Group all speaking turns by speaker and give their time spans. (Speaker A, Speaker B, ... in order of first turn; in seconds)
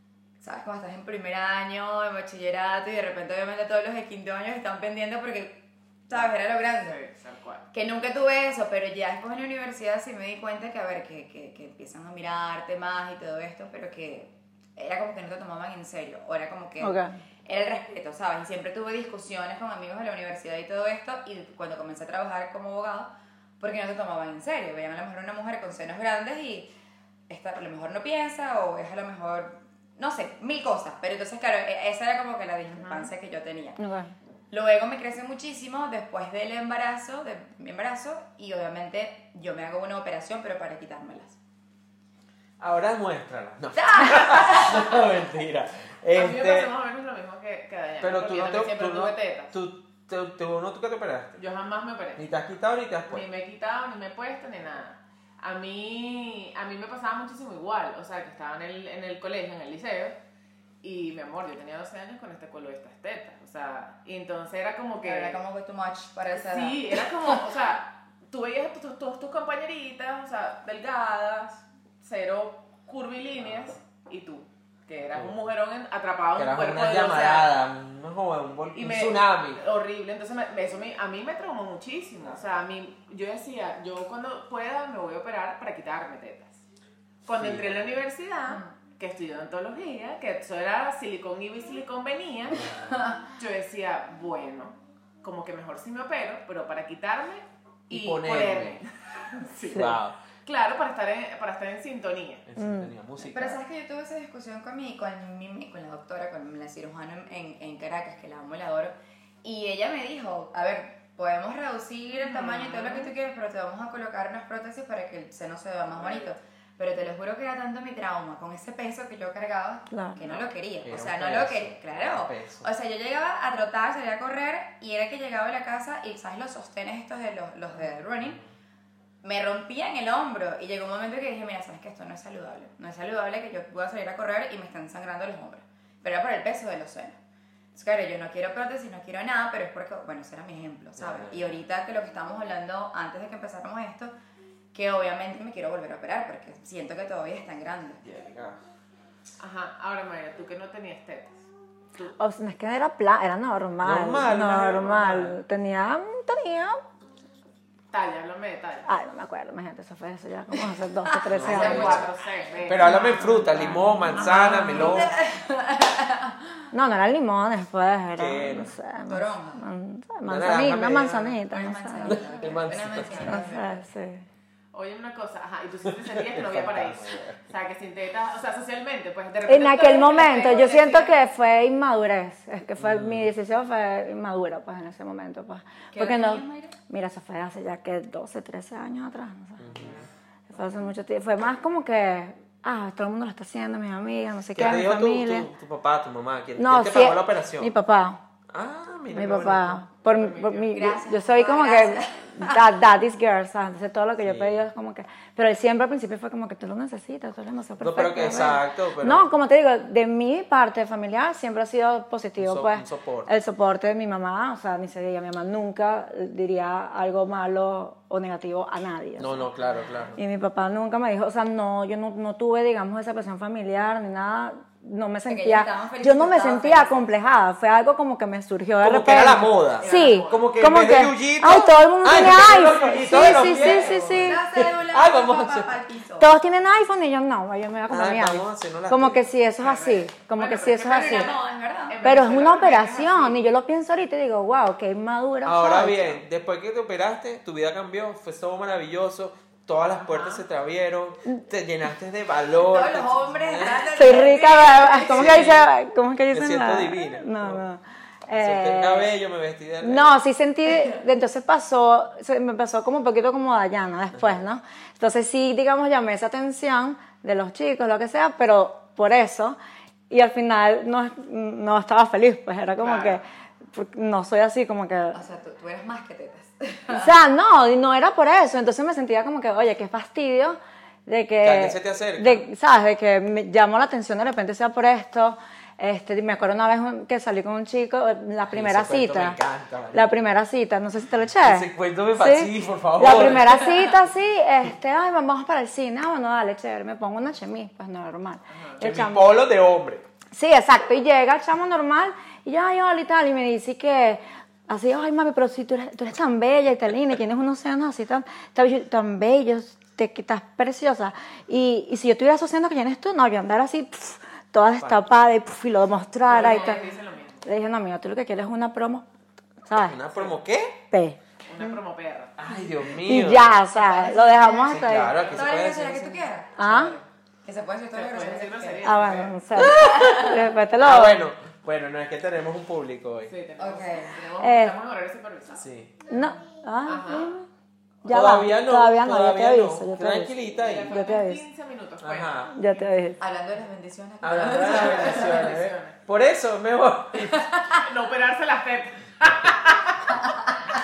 Speaker A: 0.4-7.0, 7.7-26.7, 27.3-33.8, 34.5-41.4, 43.8-45.0, 65.0-67.4, 103.2-128.4, 129.2-137.2, 137.7-144.1, 144.7-148.0, 161.1-162.1, 162.8-166.7, 169.1-169.7, 171.5-173.8, 185.9-186.8, 200.7-202.6, 225.3-227.1, 233.2-233.4, 234.1-236.3, 240.8-242.1, 252.5-255.5, 275.1-277.1, 316.3-316.8, 323.8-326.6, 327.4-328.9, 329.6-330.4, 333.6-334.2, 343.2-345.4, 347.3-347.8
Speaker B: 6.8-7.7, 32.7-33.1, 46.1-49.5, 51.4-52.2, 53.1-60.2, 60.8-65.4, 66.3-77.5, 78.8-86.6, 87.2-92.7, 93.3-102.4, 112.1-113.1, 115.9-116.3, 120.2-120.5, 149.4-151.4, 157.9-158.9, 161.4-163.3, 172.8-173.4, 174.7-181.2, 200.1-200.8, 229.8-230.6, 233.1-234.1, 239.6-243.4, 249.8-250.4, 272.8-273.2, 298.5-298.8, 316.3-317.4, 321.4-322.3, 325.0-325.5, 326.6-327.1, 327.9-329.4, 333.3-335.6, 336.8-337.3, 340.5-342.9, 344.5-346.0, 347.8-350.1
Speaker C: 16.8-17.1, 33.8-34.1, 102.6-102.9, 119.9-120.2, 152.2-156.8, 158.9-162.1, 162.9-165.1, 166.7-172.2, 173.2-174.2, 179.4-189.7, 190.5-195.5, 196.6-198.2, 199.1-219.4, 220.2-234.4, 236.2-241.3, 242.0-246.2, 253.9-259.1, 259.8-269.6, 270.1-275.2, 276.9-289.4, 289.9-299.4, 300.3-316.8, 317.4-319.1, 319.6-320.0, 320.9-321.2, 322.9-325.2, 326.6-327.0, 328.8-331.3, 334.4-334.8, 336.1-337.4, 338.1-340.3, 340.9-341.4, 342.5-343.2
Speaker D: 42.6-46.7, 48.0-51.4, 52.2-53.2, 75.1-75.4, 76.4-79.6, 87.3-88.0, 92.5-93.0, 97.9-98.8, 99.7-100.2, 102.4-103.6, 120.8-122.7, 128.2-128.5, 141.0-141.5, 148.0-148.6, 153.8-155.4, 161.3-162.1, 162.7-165.1, 168.2-168.7, 170.3-171.4, 172.0-173.3, 175.9-177.4, 182.8-183.3, 189.6-190.1, 194.6-197.7, 198.5-199.8, 204.2-204.6, 207.8-209.3, 212.4-213.3, 219.2-220.2, 228.8-235.8, 237.9-239.3, 245.4-253.9, 255.1-255.7, 256.3-257.6, 258.3-260.1, 281.4-282.4, 288.5-290.2, 291.4-293.8, 298.8-300.0, 319.9-320.8, 322.4-323.6, 324.7-326.3, 329.8-330.2, 330.8-333.3, 335.6-335.9, 338.1-340.9, 342.0-342.5, 344.2-347.4